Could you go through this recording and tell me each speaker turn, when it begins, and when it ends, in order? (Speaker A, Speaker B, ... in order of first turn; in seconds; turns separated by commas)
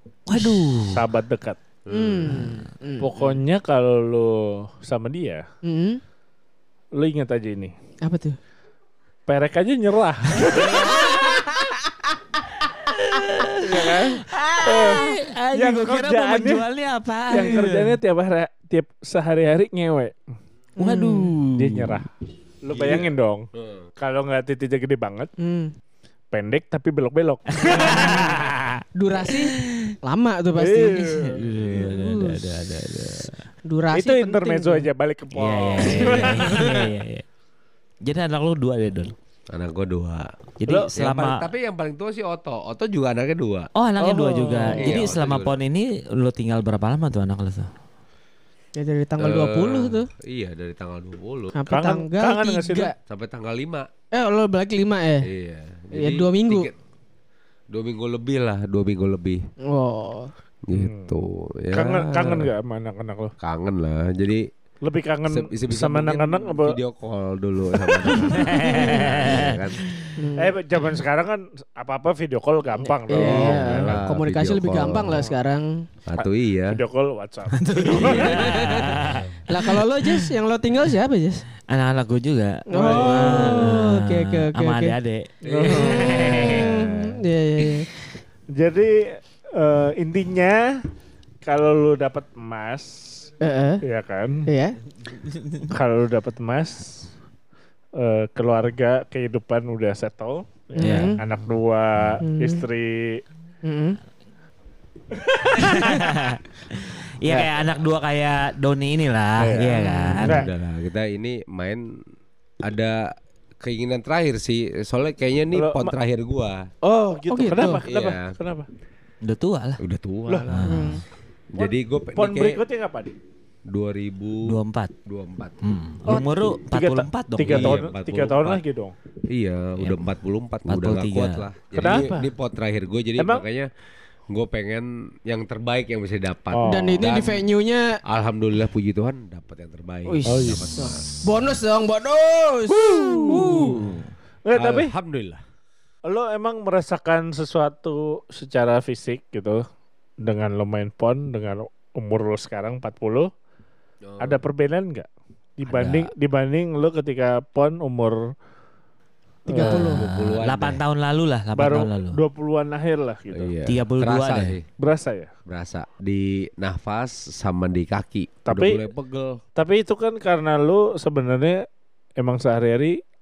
Speaker A: 0.3-1.0, Speaker B: 0.9-1.6, Speaker C: 1.9-2.4, Speaker D: 1.9-3.1, Speaker B: 3.0-5.5, Speaker D: 5.6-6.0, Speaker B: 6.9-7.7, Speaker D: 8.0-8.4, Speaker B: 9.3-10.9, Speaker A: 10.4-11.4, Speaker A: 12.6-18.0, Speaker B: 13.6-16.6, Speaker D: 14.3-14.9, Speaker B: 17.3-20.2, Speaker D: 20.8-21.3, Speaker A: 20.8-22.0, Speaker B: 21.5-22.1, Speaker B: 22.6-23.4, Speaker C: 22.7-23.9, Speaker B: 24.0-25.3, Speaker D: 25.4-25.7, Speaker B: 26.3-28.4, Speaker A: 27.5-29.9, Speaker D: 28.9-31.1, Speaker B: 30.6-31.4, Speaker A: 31.1-33.4, Speaker D: 31.8-32.5, Speaker D: 33.6-34.9, Speaker B: 33.9-36.9, Speaker A: 35.3-37.2, Speaker A: 38.0-39.1, Speaker C: 39.5-40.3, Speaker A: 40.6-41.5, Speaker B: 40.7-40.9, Speaker C: 40.9-43.7, Speaker A: 43.7-47.7, Speaker B: 44.0-45.0, Speaker C: 44.7-45.5, Speaker D: 48.8-50.1, Speaker C: 49.2-51.6, Speaker D: 51.5-52.9, Speaker B: 51.7-52.9, Speaker C: 53.0-53.9, Speaker D: 54.1-55.3, Speaker C: 55.2-56.7, Speaker D: 55.9-56.7, Speaker C: 57.7-59.4, Speaker D: 59.6-60.3, Speaker C: 60.7-62.5, Speaker B: 60.7-61.2, Speaker B: 61.7-63.3, Speaker C: 63.4-64.4, Speaker B: 64.8-66.8, Speaker C: 65.2-69.8, Speaker A: 68.3-70.2, Speaker D: 70.2-70.6, Speaker B: 70.3-74.0, Speaker D: 73.0-75.9, Speaker C: 73.1-75.2, Speaker C: 76.0-76.8, Speaker B: 76.2-78.8, Speaker A: 77.5-80.3, Speaker C: 77.9-79.3, Speaker D: 78.2-78.9, Speaker D: 79.5-81.5, Speaker A: 81.7-87.1, Speaker D: 82.7-85.0, Speaker B: 82.7-83.7, Speaker B: 85.4-86.6, Speaker D: 85.5-87.9, Speaker B: 88.5-90.8, Speaker B: 91.4-94.5, Speaker D: 93.4-93.8, Speaker D: 94.5-94.8, Speaker B: 95.7-97.1, Speaker B: 98.0-103.2, Speaker A: 100.8-101.2, Speaker D: 100.8-101.2, Speaker D: 102.2-102.6, Speaker D: 103.6-104.0, Speaker B: 105.1-106.0, Speaker A: 105.5-110.5, Speaker B: 107.2-107.5, Speaker B: 109.4-110.5, Speaker D: 109.7-110.2, Speaker C: 110.2-111.8, Speaker C: 112.6-113.0, Speaker C: 113.6-116.7, Speaker B: 115.5-116.0, Speaker B: 116.8-118.7, Speaker D: 117.3-117.8, Speaker C: 117.6-118.3, Speaker A: 119.2-119.8, Speaker C: 119.8-120.9, Speaker B: 120.3-120.6, Speaker A: 120.5-121.0, Speaker D: 120.7-121.0, Speaker C: 121.5-122.6, Speaker B: 121.6-123.1, Speaker C: 123.7-124.5, Speaker A: 124.4-124.9, Speaker C: 125.0-125.6, Speaker A: 125.6-127.8, Speaker B: 126.0-128.9, Speaker C: 127.4-128.6, Speaker C: 129.3-133.7, Speaker A: 130.7-131.4, Speaker B: 131.7-132.3, Speaker B: 133.2-133.4, Speaker C: 134.3-137.4, Speaker B: 136.5-137.1, Speaker D: 136.6-137.9, Speaker C: 138.1-141.3, Speaker D: 140.0-143.8, Speaker B: 140.2-140.7, Speaker B: 142.7-143.8, Speaker A: 143.3-144.0, Speaker C: 143.4-143.9, Speaker B: 144.4-144.9, Speaker C: 144.5-145.4, Speaker B: 146.1-149.6, Speaker B: 150.2-153.3, Speaker C: 154.0-154.4, Speaker B: 154.2-158.3, Speaker A: 155.7-156.1, Speaker D: 159.5-160.1, Speaker B: 159.5-159.8, Speaker A: 159.6-162.2, Speaker C: 159.6-160.8, Speaker B: 161.5-163.5, Speaker C: 163.3-164.7, Speaker A: 163.7-164.6, Speaker B: 164.8-165.3, Speaker C: 165.4-169.4, Speaker B: 168.4-168.8, Speaker B: 169.6-171.7, Speaker B: 172.2-173.0